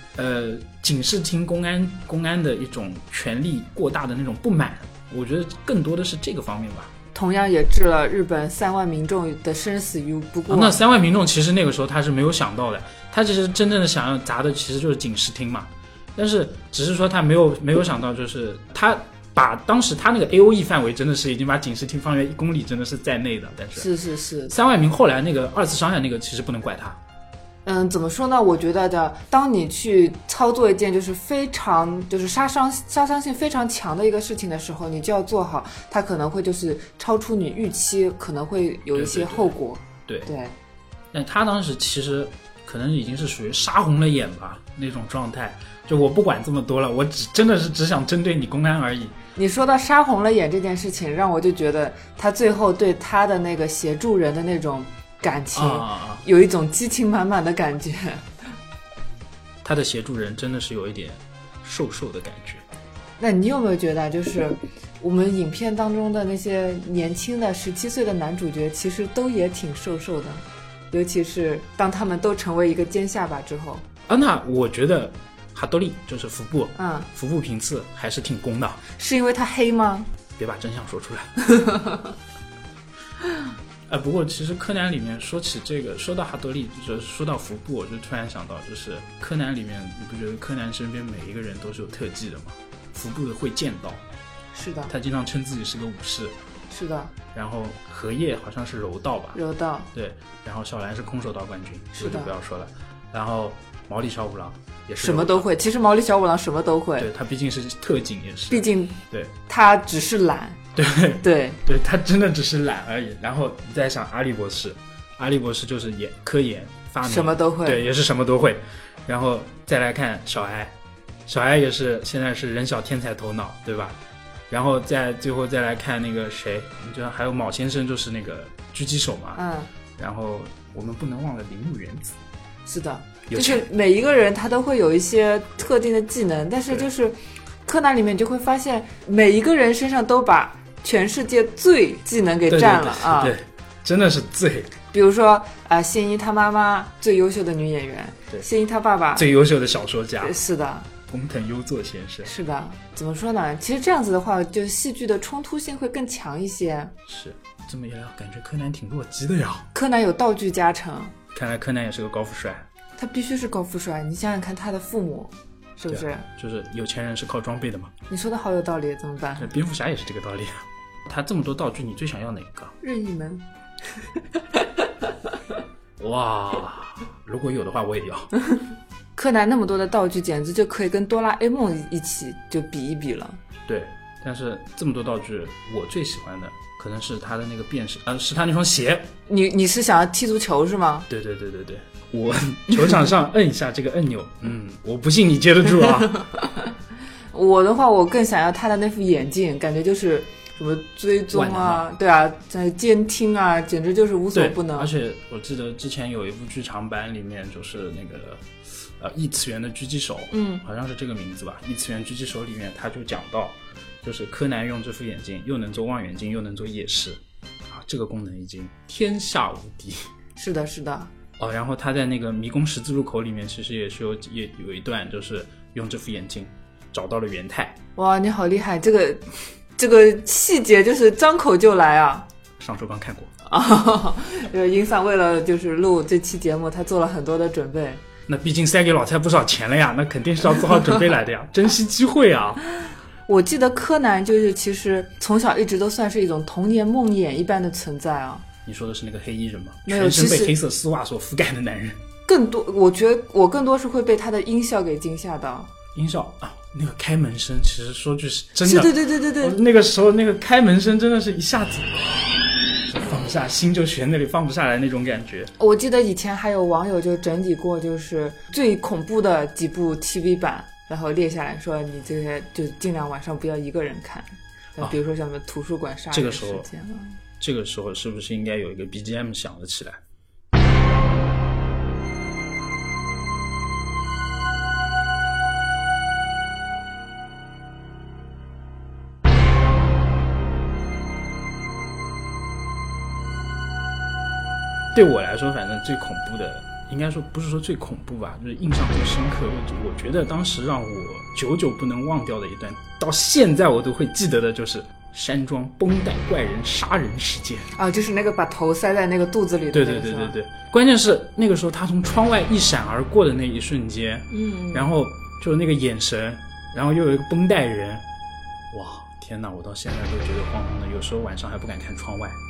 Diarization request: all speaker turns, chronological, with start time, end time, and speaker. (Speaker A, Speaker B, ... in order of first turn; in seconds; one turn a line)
Speaker A: 0.1-6.9
Speaker B: 7.2-10.8
Speaker A: 10.5-23.9
Speaker B: 23.8-24.5
Speaker A: 24.5-27.0
Speaker B: 27.6-40.5
Speaker A: 38.9-39.5
Speaker A: 41.1-49.1
Speaker B: 49.4-58.3
Speaker A: 55.5-56.2
Speaker A: 59.6-62.6
Speaker B: 63.2-73.8
Speaker A: 74.1-78.8
Speaker B: 76.8-77.1
Speaker B: 79.0-80.1
Speaker A: 80.4-81.4
Speaker B: 81.5-82.1
Speaker A: 83.9-94.0
Speaker B: 94.5-94.9
Speaker A: 94.9-96.4
Speaker B: 96.7-97.1
Speaker A: 97.3-99.4
Speaker B: 99.3-99.9
Speaker A: 99.9-105.5
Speaker B: 102.0-102.3
Speaker B: 105.0-107.1
Speaker A: 107.0-109.3
Speaker B: 108.5-110.6
Speaker A: 110.8-120.8
Speaker B: 111.2-111.6
Speaker B: 117.0-117.8
Speaker A: 121.3-124.0
Speaker A: 124.5-129.4
Speaker B: 129.3-129.7
Speaker A: 130.0-132.2
Speaker B: 132.7-143.3
Speaker A: 133.3-133.7
Speaker A: 142.5-144.8
Speaker B: 144.9-149.3
Speaker A: 149.2-150.4
Speaker B: 150.2-150.9
Speaker A: 151.1-152.3
Speaker B: 152.2-156.9
Speaker A: 157.1-159.7
Speaker B: 159.7-161.1
Speaker A: 161.3-162.7
Speaker B: 163.0-166.3
Speaker A: 165.9-167.9
Speaker B: 168.1-169.5
Speaker A: 169.4-172.8
Speaker B: 172.8-173.4
Speaker A: 176.0-178.3
Speaker B: 179.2-183.4
Speaker A: 183.7-189.1
Speaker B: 189.3-191.1
Speaker A: 191.1-196.2
Speaker B: 197.3-204.9
Speaker A: 201.3-201.9
Speaker A: 204.3-220.1
Speaker B: 210.3-210.6
Speaker B: 220.4-221.1
Speaker A: 221.4-227.8
Speaker B: 228.0-229.2
Speaker B: 229.8-232.3
Speaker A: 232.6-233.3
Speaker B: 233.5-238.0
Speaker A: 238.3-242.6
Speaker B: 243.3-248.5
Speaker A: 248.7-252.0
Speaker B: 249.9-250.5
Speaker B: 252.3-255.7
Speaker A: 255.9-265.5
Speaker B: 258.6-259.6
Speaker B: 265.6-277.2
Speaker A: 276.1-276.7
Speaker A: 277.4-280.0
Speaker A: 294.9-307.7
Speaker B: 307.8-310.4
Speaker A: 309.7-318.0
Speaker B: 314.3-314.9
Speaker A: 318.7-322.4